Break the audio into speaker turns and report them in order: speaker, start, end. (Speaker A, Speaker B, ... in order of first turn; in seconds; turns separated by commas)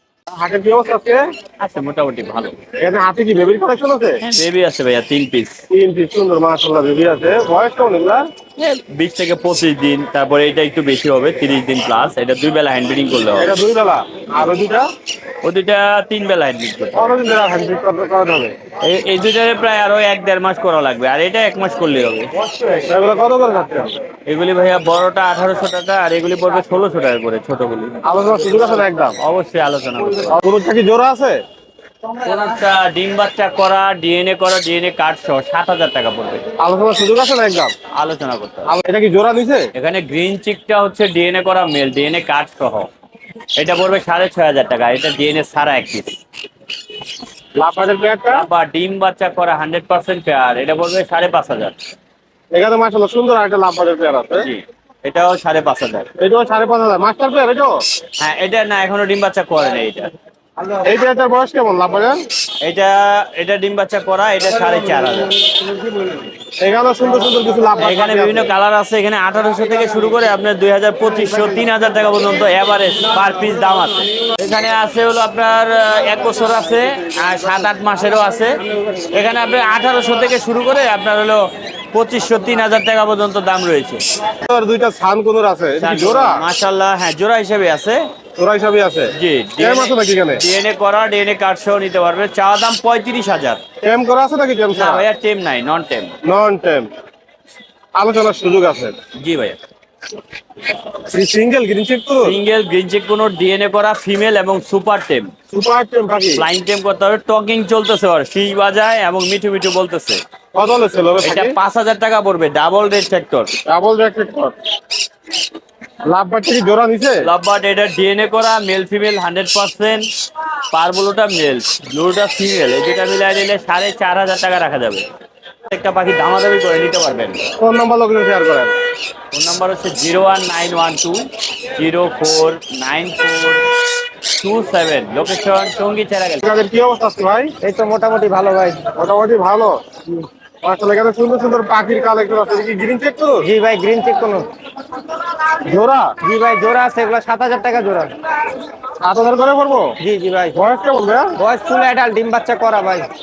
Speaker A: 0.3-1.2, Speaker B: 1.6-2.6, Speaker A: 2.8-4.2, Speaker B: 4.3-5.6, Speaker A: 5.7-8.2, Speaker B: 8.6-13.5, Speaker A: 13.4-14.9, Speaker B: 15.4-17.1, Speaker A: 16.9-18.6, Speaker B: 18.8-22.8, Speaker A: 22.9-23.9, Speaker B: 24.3-27.9, Speaker A: 28.1-29.2, Speaker B: 29.2-30.4, Speaker A: 30.4-31.4, Speaker B: 32.2-36.4, Speaker A: 36.6-37.7, Speaker B: 38.0-38.7, Speaker A: 38.7-39.6, Speaker B: 39.8-42.9, Speaker B: 43.6-46.2, Speaker A: 47.6-48.5, Speaker B: 48.3-51.7, Speaker A: 52.5-54.5, Speaker B: 54.4-56.1, Speaker A: 56.2-57.8, Speaker B: 58.2-60.1, Speaker A: 60.8-62.2, Speaker B: 62.6-65.3, Speaker A: 66.6-68.5, Speaker B: 67.8-78.5, Speaker B: 79.1-84.0, Speaker A: 84.5-86.4, Speaker B: 85.8-88.0, Speaker A: 88.4-90.4, Speaker B: 89.2-93.6, Speaker A: 93.8-95.0, Speaker B: 94.7-96.1, Speaker A: 96.2-96.9, Speaker A: 98.0-99.0, Speaker B: 99.2-99.6, Speaker A: 101.1-102.3, Speaker B: 102.2-105.3, Speaker A: 105.5-106.4, Speaker B: 106.3-110.2, Speaker A: 110.5-111.5, Speaker B: 111.2-113.5, Speaker A: 113.7-114.5, Speaker A: 116.1-117.3, Speaker B: 117.2-120.0, Speaker B: 120.7-125.0, Speaker B: 125.7-127.4, Speaker A: 127.6-128.8, Speaker B: 129.3-131.2, Speaker B: 131.8-133.6, Speaker B: 134.4-136.4, Speaker A: 136.4-137.5, Speaker C: 137.6-138.8, Speaker A: 138.9-139.8, Speaker A: 140.6-143.5, Speaker C: 143.4-144.5, Speaker A: 145.7-146.1, Speaker C: 146.2-148.1, Speaker A: 149.0-149.9, Speaker C: 150.0-150.6, Speaker A: 150.6-151.3, Speaker C: 151.4-153.1